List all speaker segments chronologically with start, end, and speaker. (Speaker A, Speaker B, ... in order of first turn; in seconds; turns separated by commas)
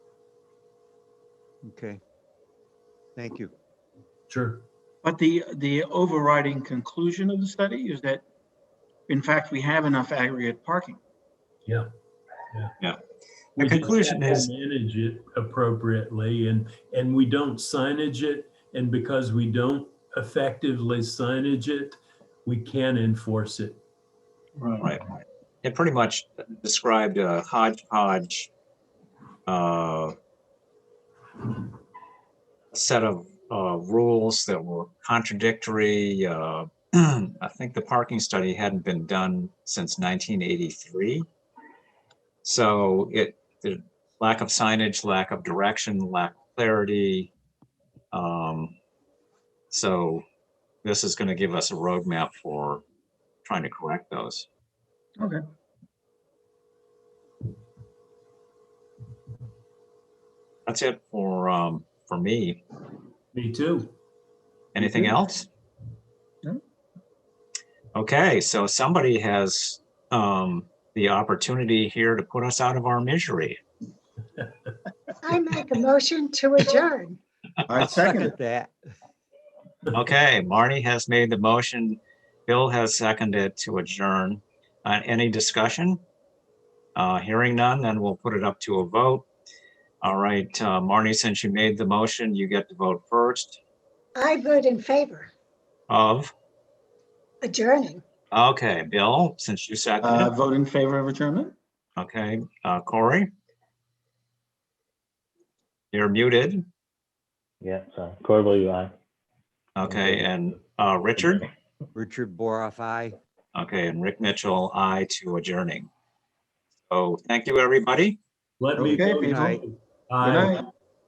Speaker A: 1.6-2.0, Speaker A: 3.2-3.5, Speaker B: 4.3-4.7, Speaker C: 5.0-8.2, Speaker C: 9.1-11.0, Speaker D: 13.6-14.5, Speaker B: 13.6-23.8, Speaker C: 24.6-24.9, Speaker D: 24.8-28.5, Speaker D: 29.5-30.1, Speaker D: 32.7-41.3, Speaker D: 42.4-47.3, Speaker D: 48.1-48.8, Speaker D: 49.7-50.2, Speaker D: 50.8-52.8, Speaker D: 53.5-54.5, Speaker D: 60.7-62.6, Speaker B: 63.3-63.9, Speaker D: 64.7-65.5, Speaker C: 64.8-65.1, Speaker D: 67.9-73.6, Speaker E: 75.2-77.2, Speaker C: 77.7-78.3, Speaker D: 77.7-78.0, Speaker A: 77.9-78.8, Speaker D: 79.9-86.0, Speaker D: 87.0-89.3, Speaker D: 90.0-93.6, Speaker E: 94.2-95.3, Speaker D: 95.9-96.3, Speaker E: 97.4-98.0, Speaker D: 98.3-100.3, Speaker C: 100.0-101.5, Speaker D: 102.0-103.3, Speaker D: 105.9-106.6, Speaker F: 107.6-108.9, Speaker D: 109.8-111.4, Speaker F: 109.8-110.4, Speaker F: 111.2-111.5, Speaker A: 112.0-113.2, Speaker D: 113.5-115.9, Speaker D: 116.9-118.2, Speaker B: 118.6-120.6, Speaker C: 118.8-119.6, Speaker A: 119.2-119.6, Speaker C: 120.2-120.6